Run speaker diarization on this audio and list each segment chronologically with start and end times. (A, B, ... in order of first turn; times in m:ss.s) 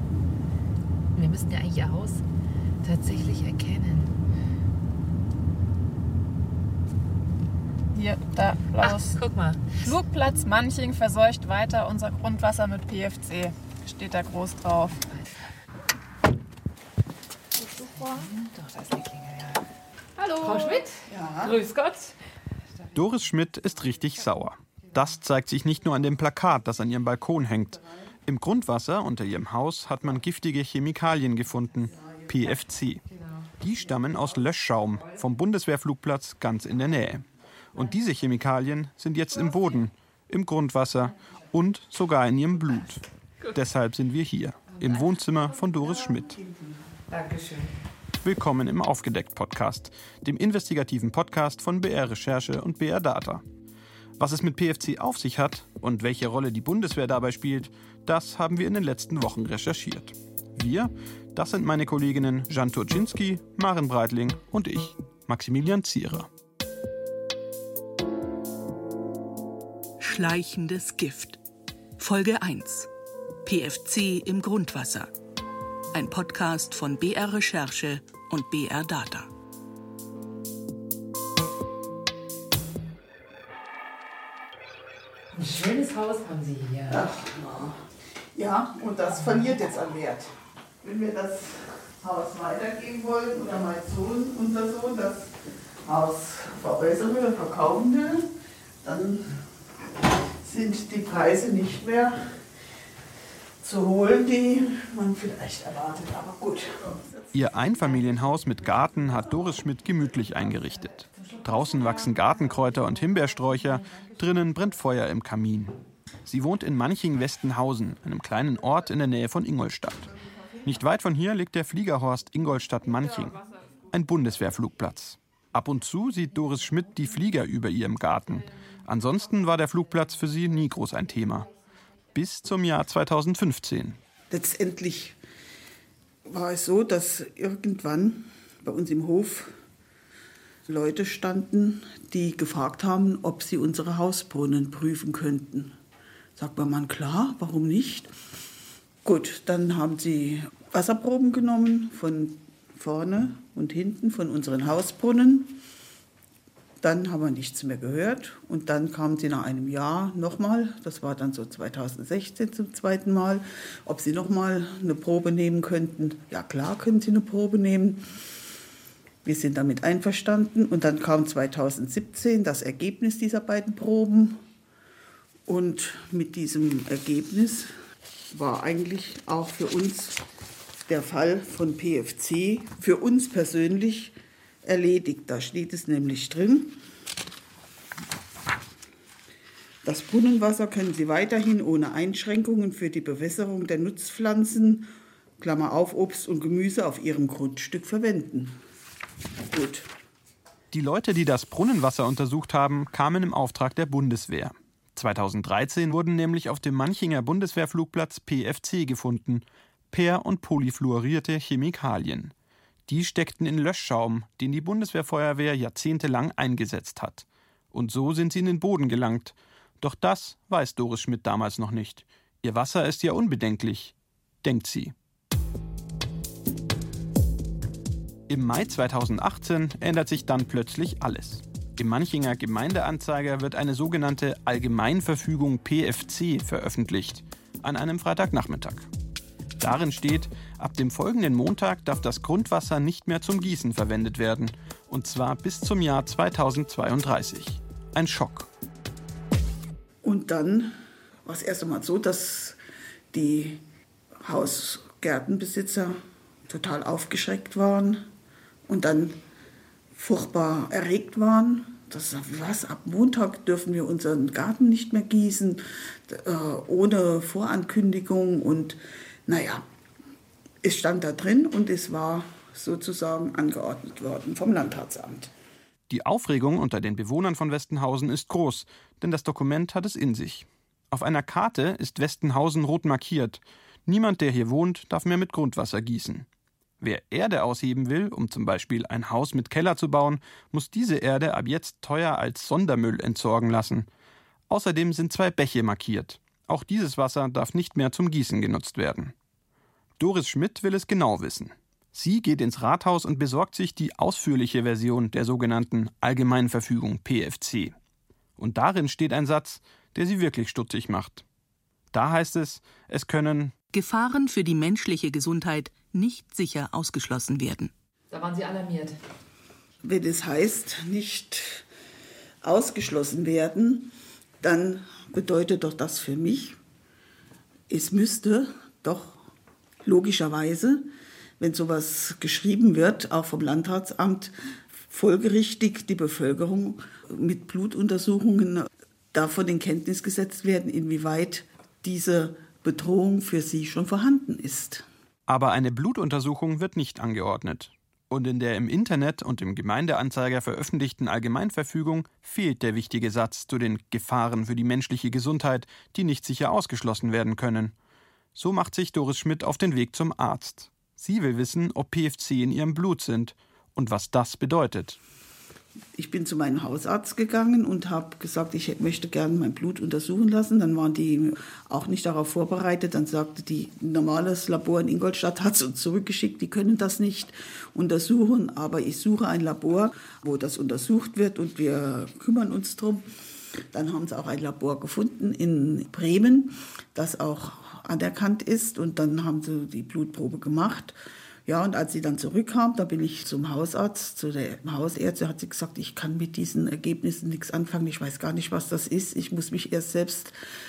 0:01.2-0:02.2 A
0:02.8-0:04.1 A
0:07.9-0:09.2 B
0:08.8-0:09.9 A
0:09.8-0:15.1 B
0:17.8-0:18.3 B
0:17.9-0:19.6 A
0:20.2-0:20.9 A
0:20.4-0:20.8 B
0:21.1-0:21.6 C
0:21.4-0:22.1 A
0:22.9-0:33.0 D
0:33.2-0:33.5 A
0:33.6-0:46.4 D
0:44.7-0:45.0 A
0:46.2-0:46.7 C
0:47.1-0:47.7 A
0:48.2-0:53.4 D
0:54.2-1:06.3 D
1:10.0-1:11.4 E
1:12.0-1:12.9 E
1:13.4-1:15.1 E
1:15.9-1:19.3 E
1:25.3-1:27.0 A
1:26.9-1:27.8 C
1:28.3-1:35.3 C
1:35.8-1:38.3 C
1:38.8-1:39.4 C
1:40.4-1:42.3 C
1:43.6-1:48.1 C
1:47.3-2:00.1 D
2:00.6-2:11.5 D
2:12.1-2:14.0 D
2:14.3-2:15.2 C
2:16.3-2:19.5 C
2:20.6-2:25.7 C
2:26.4-2:28.1 C
2:29.0-2:35.6 C
2:36.8-2:48.0 C
2:49.2-2:54.4 C
2:55.5-2:57.7 C
2:58.3-3:00.2 C
3:00.9-3:06.8 C
3:09.8-3:14.9 C
3:15.4-3:18.5 C
3:19.5-3:19.9 C
3:20.7-3:32.3 D
3:32.9-3:44.9 D
3:48.3-3:58.9 D
3:59.6-4:08.5 D
4:10.0-4:10.7 C
4:11.2-4:12.6 C
4:13.1-4:13.6 C
4:14.2-4:18.0 C
4:18.7-4:19.2 C
4:19.9-4:29.7 C
4:30.6-4:35.3 C
4:35.9-4:46.3 D
4:46.8-4:53.9 D
4:54.5-4:59.1 D
5:00.0-5:07.7 D
5:08.4-5:11.2 D
5:11.9-5:13.6 D
5:13.7-5:17.7 E
5:18.1-5:19.0 A
5:19.8-5:21.6 C
5:22.4-5:26.6 C
5:27.7-5:29.2 C
5:29.8-5:30.9 C
5:31.4-5:34.3 C
5:34.9-5:44.9 C
5:45.3-5:57.7 D
5:58.4-6:05.0 D
6:06.0-6:23.1 C
6:23.7-6:31.0 C
6:31.5-6:40.4 C